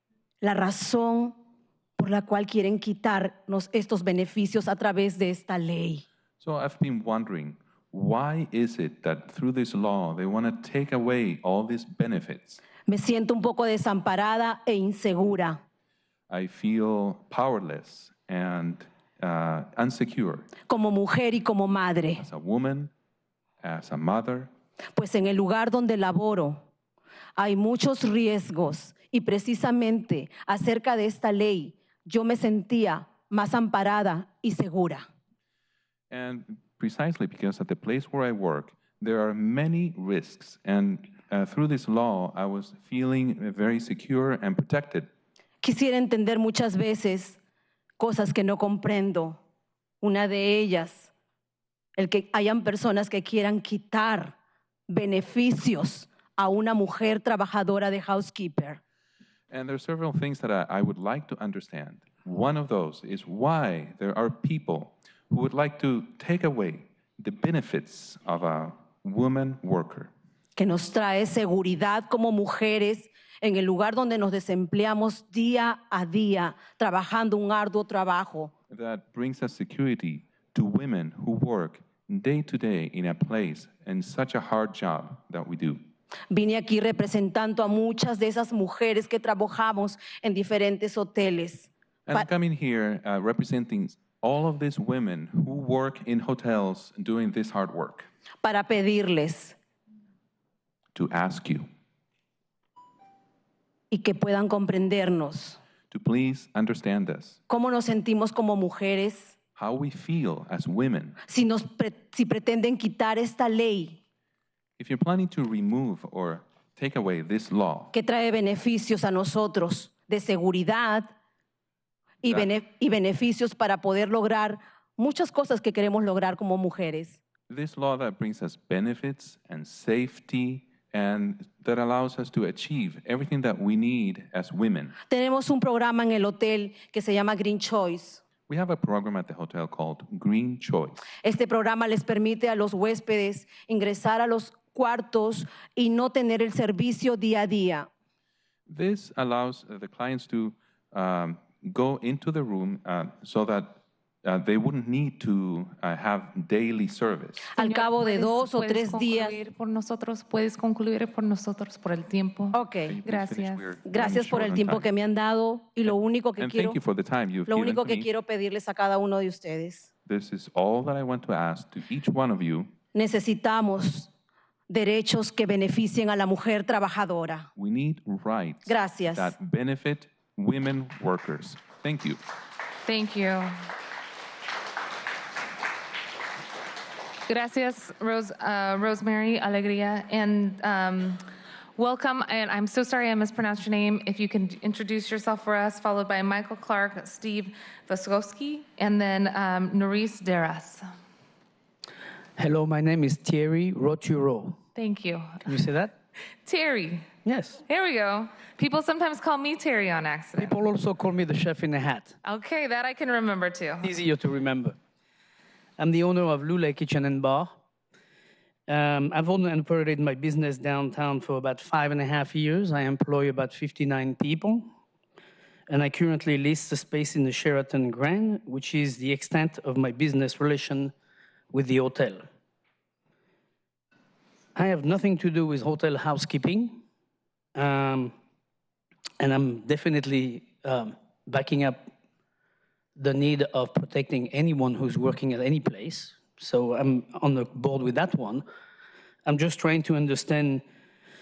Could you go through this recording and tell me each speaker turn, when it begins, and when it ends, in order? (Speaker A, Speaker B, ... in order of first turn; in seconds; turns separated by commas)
Speaker A: 0.4-1.4, Speaker A: 2.0-6.0, Speaker B: 6.4-12.6, Speaker A: 12.9-15.6, Speaker B: 16.3-20.5, Speaker A: 20.7-22.2, Speaker B: 22.2-22.9, Speaker B: 23.6-24.5, Speaker A: 25.0-26.6, Speaker A: 27.4-35.0, Speaker B: 36.1-45.1, Speaker A: 45.6-47.4, Speaker A: 48.0-49.4, Speaker A: 50.0-51.1, Speaker A: 52.0-54.3, Speaker A: 54.9-58.8, Speaker B: 59.5-70.1, Speaker A: 70.6-78.5, Speaker B: 78.7-85.8, Speaker A: 86.3-92.3, Speaker B: 92.1-98.1, Speaker A: 98.4-99.6, Speaker B: 101.0-101.7, Speaker A: 103.9-105.6, Speaker B: 105.9-107.4, Speaker A: 107.5-109.3, Speaker B: 109.6-111.2, Speaker A: 111.3-114.0, Speaker B: 114.8-117.9, Speaker A: 117.9-121.1, Speaker A: 122.2-127.2, Speaker B: 122.2-122.5, Speaker B: 127.5-134.9, Speaker A: 135.1-138.2, Speaker B: 138.5-141.1, Speaker A: 141.2-147.9, Speaker B: 148.7-157.5, Speaker A: 157.6-159.3, Speaker C: 157.6-163.6, Speaker A: 162.5-163.0, Speaker B: 162.8-164.9, Speaker A: 163.9-166.8, Speaker B: 166.4-168.1, Speaker A: 167.5-169.9, Speaker B: 170.1-172.7, Speaker A: 172.9-174.1, Speaker A: 174.7-177.5, Speaker B: 177.6-182.2, Speaker A: 178.7-179.3, Speaker C: 182.8-183.6, Speaker C: 187.3-191.2, Speaker C: 191.8-200.8, Speaker D: 202.4-204.6, Speaker C: 204.8-205.5, Speaker D: 205.5-205.9, Speaker C: 206.4-207.1, Speaker D: 207.2-207.6, Speaker C: 207.7-210.6, Speaker D: 210.4-212.2, Speaker C: 212.2-213.9, Speaker D: 213.8-214.8, Speaker D: 215.8-217.6, Speaker D: 218.7-224.7, Speaker D: 225.7-230.9, Speaker D: 231.5-232.2, Speaker D: 234.6-236.8, Speaker D: 237.6-238.1, Speaker D: 239.2-241.9, Speaker D: 243.0-248.4, Speaker D: 249.2-250.6